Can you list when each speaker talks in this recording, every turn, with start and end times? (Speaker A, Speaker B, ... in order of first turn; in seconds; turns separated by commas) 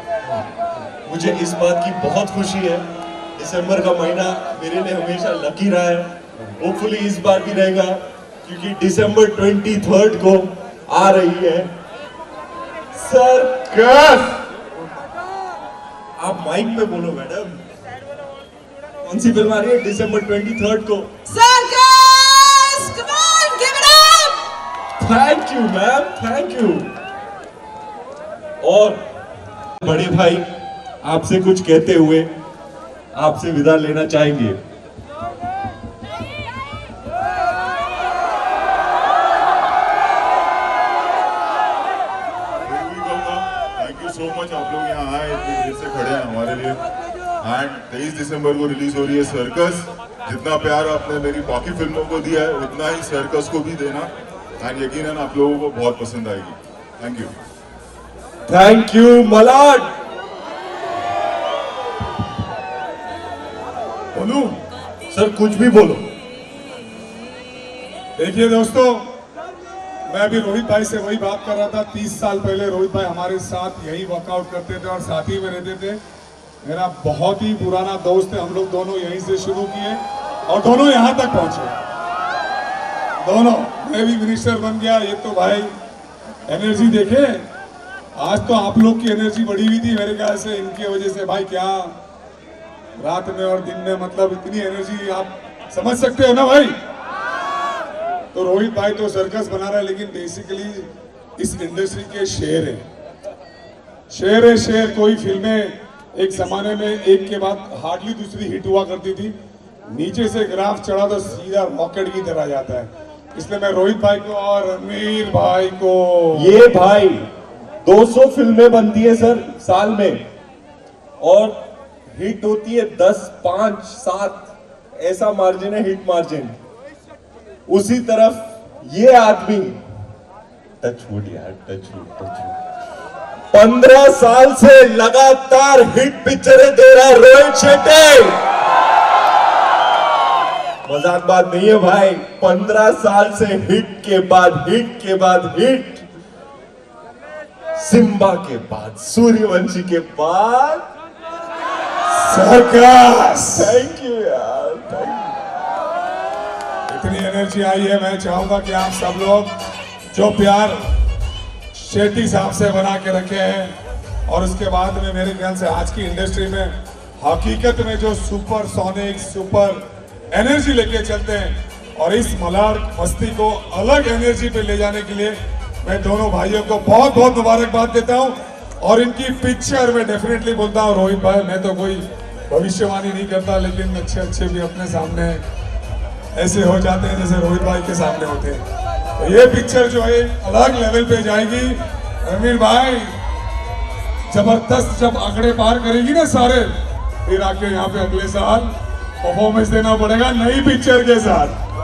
Speaker A: 1.0-11.7, Speaker A: 12.9-14.4, Speaker A: 16.2-17.6, Speaker A: 19.0-21.1, Speaker B: 21.3-24.4, Speaker A: 25.0-27.0, Speaker A: 28.6-29.1, Speaker A: 29.8-32.4, Speaker A: 33.1-34.6, Speaker C: 42.6-46.8, Speaker C: 47.4-57.3, Speaker A: 58.5-59.9, Speaker D: 64.1-64.6, Speaker A: 65.1-66.1, Speaker D: 68.2-69.1, Speaker D: 70.1-76.0, Speaker D: 76.6-81.7, Speaker D: 83.2-85.7, Speaker D: 86.5-87.5, Speaker D: 88.2-92.0, Speaker D: 93.0-96.8, Speaker D: 98.3-102.8, Speaker D: 104.1-109.3, Speaker D: 109.9-116.6, Speaker A: 116.3-117.3, Speaker A: 117.8-120.3, Speaker A: 121.2-126.6, Speaker A: 127.7-129.8, Speaker A: 130.8-132.6, Speaker A: 133.5-138.4, Speaker A: 140.8-146.1, Speaker A: 147.7-150.9, Speaker D: 152.1-153.8, Speaker A: 153.6-155.3, Speaker D: 156.9-159.5, Speaker D: 160.1-160.8, Speaker D: 161.7-163.8, Speaker D: 164.3-185.4, Speaker D: 186.3-188.6, Speaker D: 189.2-193.1, Speaker D: 194.3-196.7, Speaker D: 197.2-201.6